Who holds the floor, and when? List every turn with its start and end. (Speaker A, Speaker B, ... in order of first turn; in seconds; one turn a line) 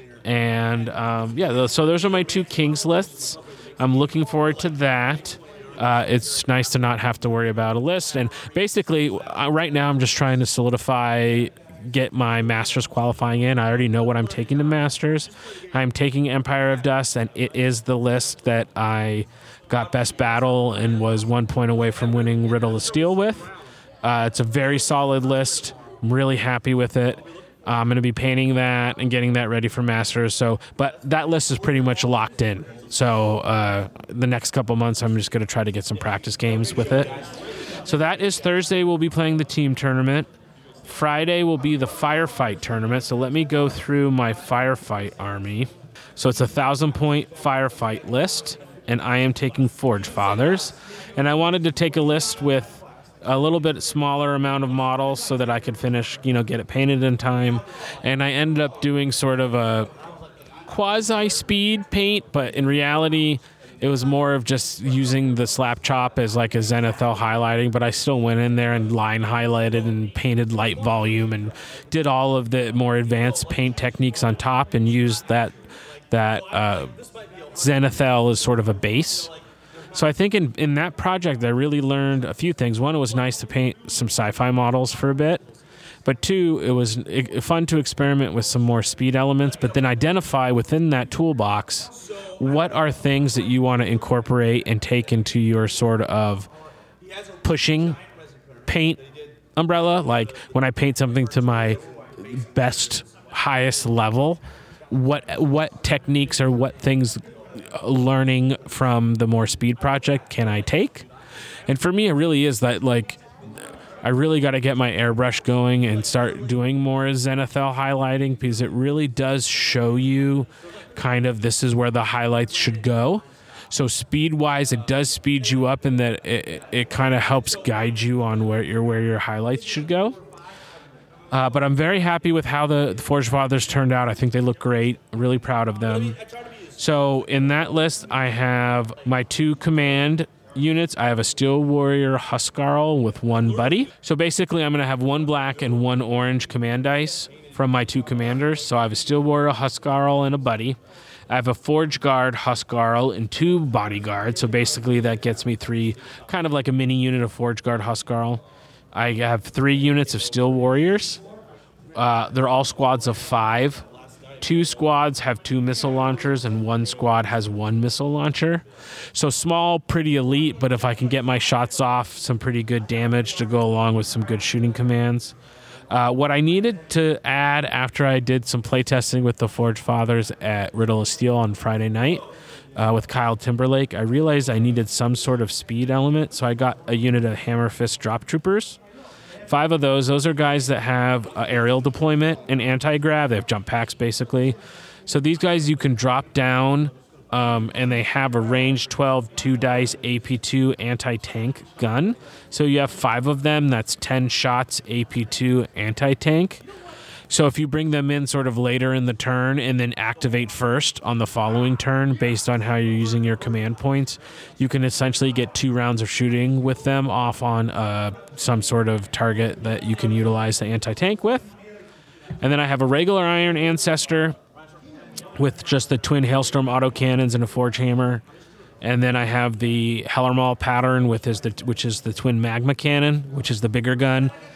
Speaker A: 0.2-23.5
Speaker A: 24.0-37.2
Speaker A: 37.8-40.3
Speaker A: 40.8-59.9
Speaker A: 60.6-75.5
Speaker A: 76.1-76.9
Speaker A: 77.5-79.3
Speaker A: 79.9-85.4
Speaker A: 86.0-96.5
Speaker A: 97.4-98.0
Speaker A: 98.7-99.0
Speaker A: 99.5-111.0
Speaker A: 111.7-113.2
Speaker A: 114.0-130.2
Speaker A: 131.3-136.2
Speaker A: 136.8-150.8
Speaker A: 151.3-158.4
Speaker A: 158.9-161.2
Speaker A: 161.9-163.8
Speaker A: 164.4-175.3
Speaker A: 175.9-182.2
Speaker A: 182.8-188.8
Speaker A: 189.5-206.6
Speaker A: 207.3-221.5
Speaker A: 222.4-224.3
Speaker A: 225.4-228.2
Speaker A: 228.8-234.3